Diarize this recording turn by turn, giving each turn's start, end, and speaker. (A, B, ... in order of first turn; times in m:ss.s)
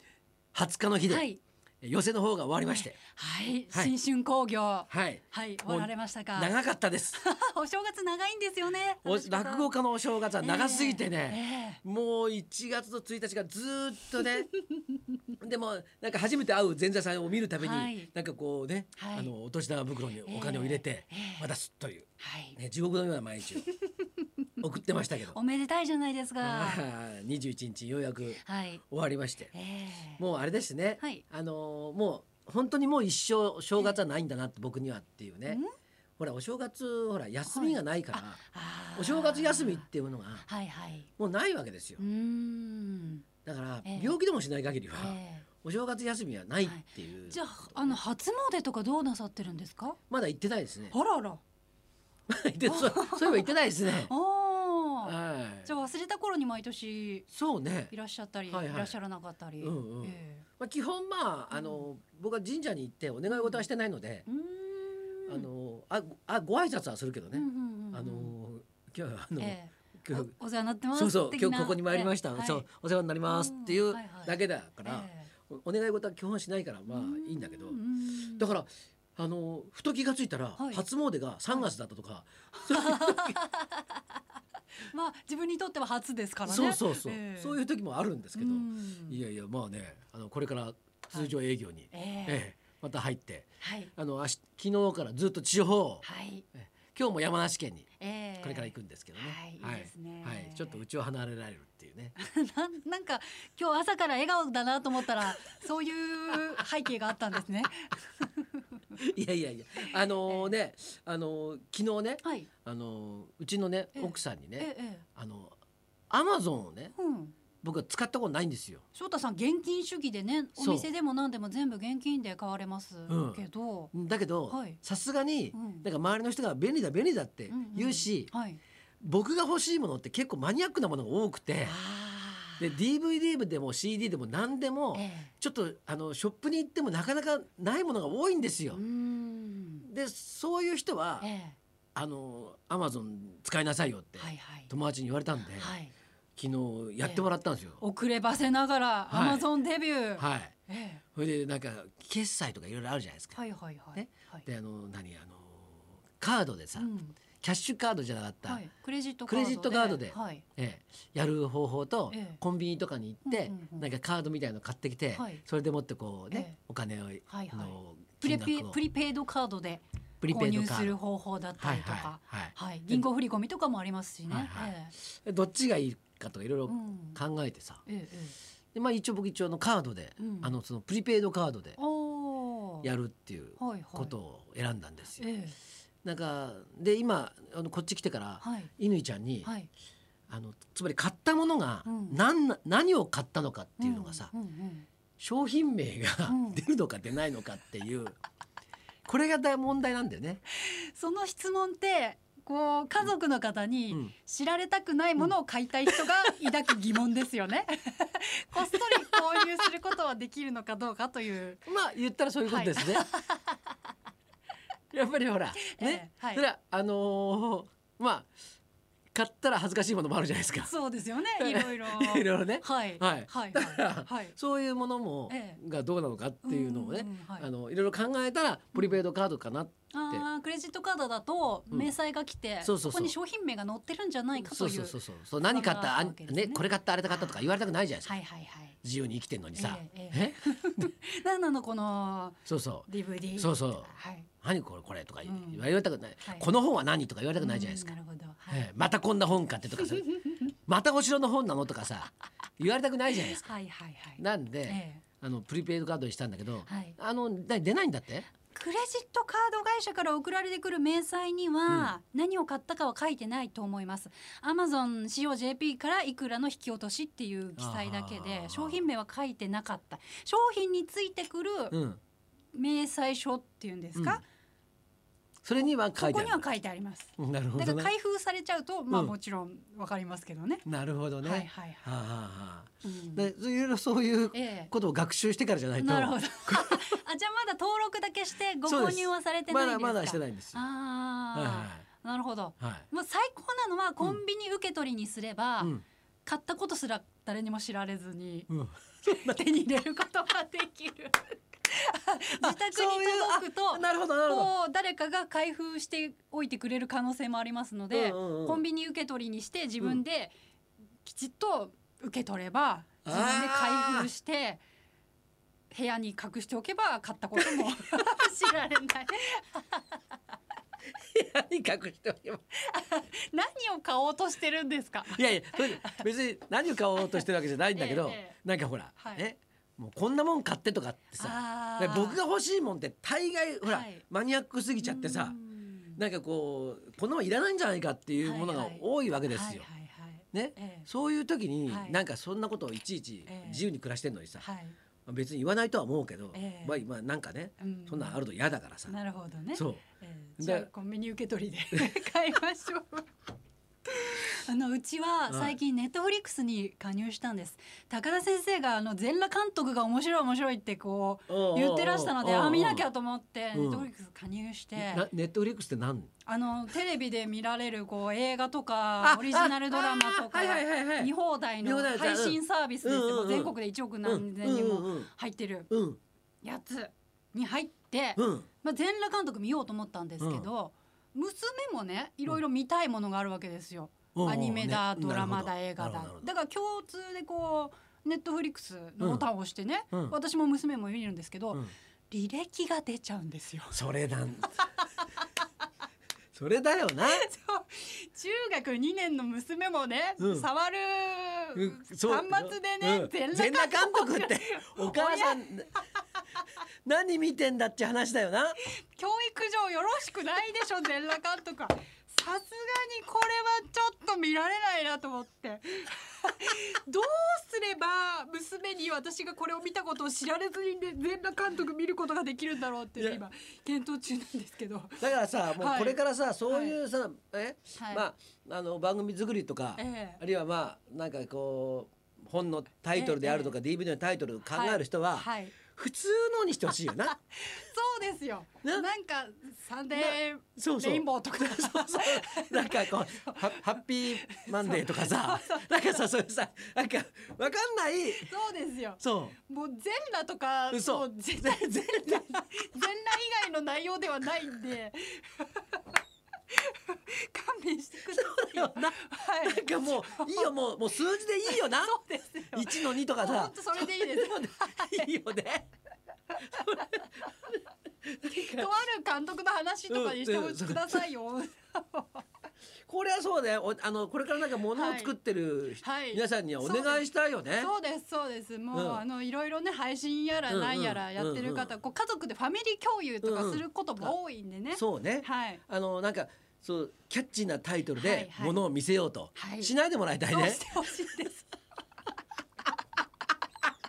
0:00.5-0:01.3 A
0:01.1-0:01.4 B
0:01.8-0:03.0 A
0:02.7-0:06.6 B
0:04.9-0:07.2 A
0:07.1-0:09.7 B
0:09.0-0:14.5 A
0:10.4-0:11.8 B
0:14.2-0:14.9 B
0:15.4-0:23.7 A
0:17.6-0:18.1 B
0:19.0-0:19.3 B
0:20.3-0:21.5 B
0:22.2-0:22.6 B
0:23.6-0:24.2 B
0:24.6-0:25.4 A
0:25.3-0:26.8 B
0:26.4-0:29.5 A
0:28.4-0:28.8 B
0:29.5-0:30.2 B
0:30.2-0:35.6 A
0:36.2-0:38.4 A
0:37.5-0:39.9 B
0:39.0-0:40.5 A
0:40.4-0:41.1 B
0:41.2-0:42.0 A
0:42.0-0:43.3 B
0:43.4-0:48.0 A
0:43.8-0:44.2 B
0:45.0-0:45.5 B
0:46.6-0:50.0 B
0:50.1-0:51.0 A
0:50.9-0:51.4 B
0:52.3-0:54.1 A
0:52.7-0:55.2 B
0:55.0-0:55.7 A
0:55.7-0:57.3 B
0:57.3-0:57.9 A
0:57.9-1:00.5 B
0:58.5-0:59.0 A
0:59.6-1:04.3 A
1:01.5-1:01.8 B
1:03.3-1:03.6 B
1:04.3-1:05.5 B
1:05.3-1:10.3 A
1:07.3-1:08.3 B
1:09.4-1:12.7 B
1:10.9-1:17.8 A
1:13.2-1:15.3 B
1:16.9-1:18.5 B
1:18.4-1:23.4 A
1:20.6-1:20.8 B
1:22.6-1:24.0 B
1:24.9-1:27.6 B
1:26.4-1:37.9 A
1:28.4-1:29.2 B
1:31.9-1:32.4 B
1:33.6-1:33.9 B
1:36.0-1:36.5 B
1:38.0-1:40.8 B
1:38.4-1:42.2 A
1:42.2-1:48.8 B
1:49.0-1:55.6 A
1:50.3-1:50.5 B
1:52.2-1:52.5 B
1:54.0-1:55.0 B
1:56.1-1:56.9 A
1:57.0-1:57.4 B
1:57.6-1:58.8 A
1:59.0-2:03.9 B
2:00.6-2:00.9 A
2:03.1-2:03.4 A
2:03.9-2:08.3 A
2:04.5-2:04.8 B
2:05.5-2:05.9 B
2:07.5-2:08.6 B
2:09.0-2:11.8 A
2:11.6-2:12.7 B
2:12.6-2:18.8 A
2:14.9-2:15.3 B
2:18.7-2:19.9 B
2:19.8-2:21.3 A
2:21.2-2:21.6 B
2:22.0-2:25.8 A
2:24.2-2:24.7 B
2:25.6-2:25.9 B
2:26.4-2:27.8 A
2:27.8-2:31.0 B
2:29.1-2:29.5 A
2:30.2-2:30.5 A
2:31.1-2:33.4 A
2:33.4-2:34.5 B
2:34.0-2:38.6 A
2:36.8-2:37.2 B
2:38.4-2:40.4 B
2:39.3-2:48.8 A
2:42.1-2:42.4 B
2:43.3-2:43.8 B
2:45.1-2:45.4 B
2:46.3-2:46.6 B
2:47.3-2:54.9 B
2:50.2-2:51.0 A
2:51.6-2:53.1 A
2:54.3-2:57.8 A
2:56.7-2:57.2 B
2:57.9-2:58.4 B
2:58.7-3:01.8 A
3:00.2-3:00.5 B
3:01.8-3:02.9 B
3:02.8-3:05.3 A
3:03.6-3:04.1 B
3:05.2-3:05.6 B
3:06.0-3:09.5 A
3:08.4-3:08.7 B
3:10.3-3:14.3 A
3:11.9-3:12.2 B
3:13.8-3:14.9 B
3:15.2-3:18.2 A
3:16.3-3:16.6 B
3:19.1-3:20.4 A
3:20.5-3:31.7 B
3:28.7-3:29.4 A
3:31.7-3:33.1 A
3:32.4-3:33.6 B
3:34.9-3:38.3 A
3:35.6-3:36.4 B
3:39.1-3:40.7 A
3:40.6-3:44.4 B
3:41.4-3:50.2 A
3:45.3-3:45.6 B
3:46.4-3:47.5 B
3:49.9-3:57.4 B
3:52.6-3:53.2 A
3:54.4-3:58.2 A
3:58.0-3:58.8 B
3:58.8-4:00.9 A
3:59.6-4:04.3 B
4:02.5-4:07.9 A
4:05.2-4:05.7 B
4:06.2-4:06.5 B
4:07.4-4:08.7 B
4:08.5-4:13.4 A
4:09.8-4:10.4 B
4:13.1-4:15.0 B
4:14.2-4:18.3 A
4:16.7-4:17.0 B
4:18.5-4:31.8 B
4:21.7-4:21.9 A
4:27.6-4:28.8 A
4:31.7-4:32.0 A
4:32.5-4:34.2 B
4:34.0-4:34.2 A
4:35.4-4:36.5 A
4:36.0-4:40.7 B
4:37.2-4:37.9 A
4:40.7-4:47.0 A
4:41.2-4:41.8 B
4:42.8-4:43.3 B
4:44.3-4:44.7 B
4:45.8-4:55.7 B
4:48.7-4:50.6 A
4:51.3-4:51.8 A
4:52.6-4:52.9 A
4:56.2-4:58.5 B
4:58.5-4:59.4 A
4:59.0-5:10.4 B
5:02.4-5:04.5 A
5:07.9-5:08.6 A
5:11.0-5:14.6 B
5:13.0-5:14.1 A
5:15.7-5:20.0 B
5:17.4-5:18.1 A
5:20.9-5:22.4 A
5:22.5-5:26.0 B
5:25.1-5:35.4 A
5:27.0-5:28.4 B
5:29.0-5:29.2 B
5:31.2-5:32.2 B
5:33.6-5:34.0 B
5:34.8-5:36.0 B
5:36.0-5:39.7 A
5:38.2-5:40.9 B
5:40.3-5:44.4 A
5:41.7-5:42.0 B
5:43.3-5:43.7 B
5:44.4-5:44.8 B
5:45.1-5:49.0 A
5:46.3-5:46.8 B
5:47.6-5:48.2 B
5:48.9-5:53.1 B
5:49.5-5:49.8 A
5:50.4-5:50.7 A
5:53.9-6:05.1 B
5:55.3-5:55.6 A
6:01.3-6:02.9 A
6:03.5-6:03.9 A
6:04.8-6:06.1 A
6:06.3-6:15.7 B
6:09.0-6:15.1 A
6:15.7-6:16.0 A
6:16.4-6:33.8 B
6:18.2-6:18.5 A
6:20.2-6:20.5 A
6:24.2-6:26.3 A
6:29.0-6:29.3 A
6:33.7-6:34.6 A
6:36.3-6:37.2 A
6:37.0-6:45.4 B
6:40.2-6:40.5 A
6:41.6-6:45.7 A
6:46.8-6:48.6 A
6:48.6-7:06.8 B
7:03.0-7:03.2 A
7:05.0-7:17.2 A
7:07.8-7:08.0 B
7:09.8-7:10.2 B
7:12.9-7:13.5 B
7:14.5-7:15.6 B
7:17.1-7:26.0 B
7:20.0-7:28.3 A
7:28.2-7:35.8 B
7:29.0-7:29.4 A
7:30.7-7:32.5 A
7:36.5-7:40.5 B
7:38.1-7:42.0 A
7:41.4-7:45.2 B
7:42.5-7:45.7 A
7:46.4-7:48.7 A
7:48.2-7:52.3 B
7:49.9-7:51.1 A
7:52.9-7:57.7 A
7:54.7-7:55.2 B
7:55.8-8:05.6 B
7:58.7-7:59.0 A
8:00.5-8:01.7 A
8:03.2-8:04.2 A
8:04.7-8:10.7 A
8:08.0-8:08.6 B
8:09.4-8:09.7 B
8:10.3-8:11.5 B